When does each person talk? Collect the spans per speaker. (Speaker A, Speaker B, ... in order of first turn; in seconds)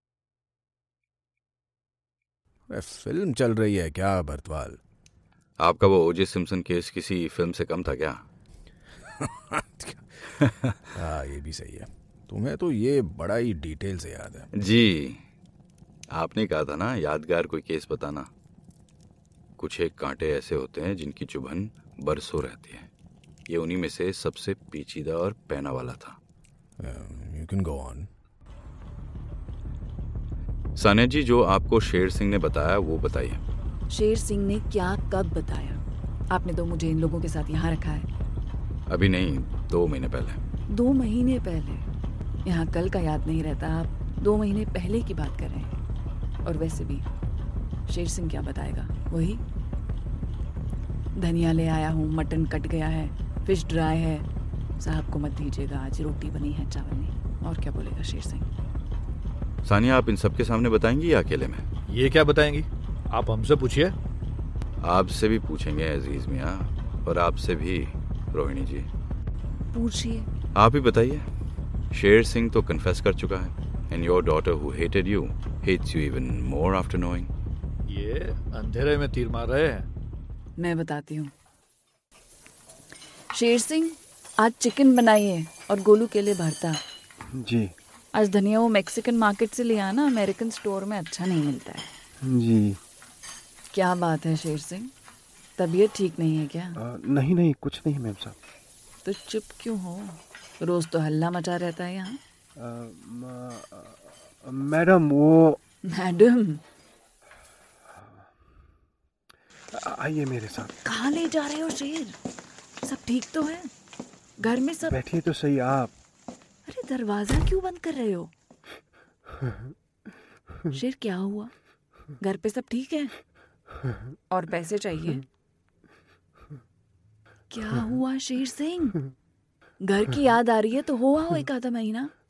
Speaker A: 2.7-4.8, 9.2-10.2, 10.8-14.5, 26.8-28.1
Speaker B: 5.6-8.2, 14.5-15.2, 16.1-18.3, 19.6-22.9, 23.5-26.2, 30.8-33.4, 38.9-40.4, 59.6-61.6, 64.8-68.9, 70.5-71.3, 71.9-77.3
Speaker C: 33.9-38.1, 40.7-41.9, 42.4-45.8, 46.4-47.0, 47.9-49.4, 51.1-54.2, 54.8-58.5, 69.7-70.3, 80.6-81.3, 83.3-86.8, 88.1-91.9, 93.7-94.9, 95.6-96.8, 99.0-102.2, 105.8-106.6, 110.8-112.2, 112.8-113.7, 114.4-115.0, 116.7-118.3, 120.7-121.5, 122.2-123.1, 124.3-125.2, 127.5-129.0, 129.8-132.1
Speaker D: 61.9-63.9, 77.9-79.9
Speaker E: 87.3-87.7, 92.2-92.8, 96.8-98.4, 102.6-105.6, 109.7-110.7, 114.8-115.9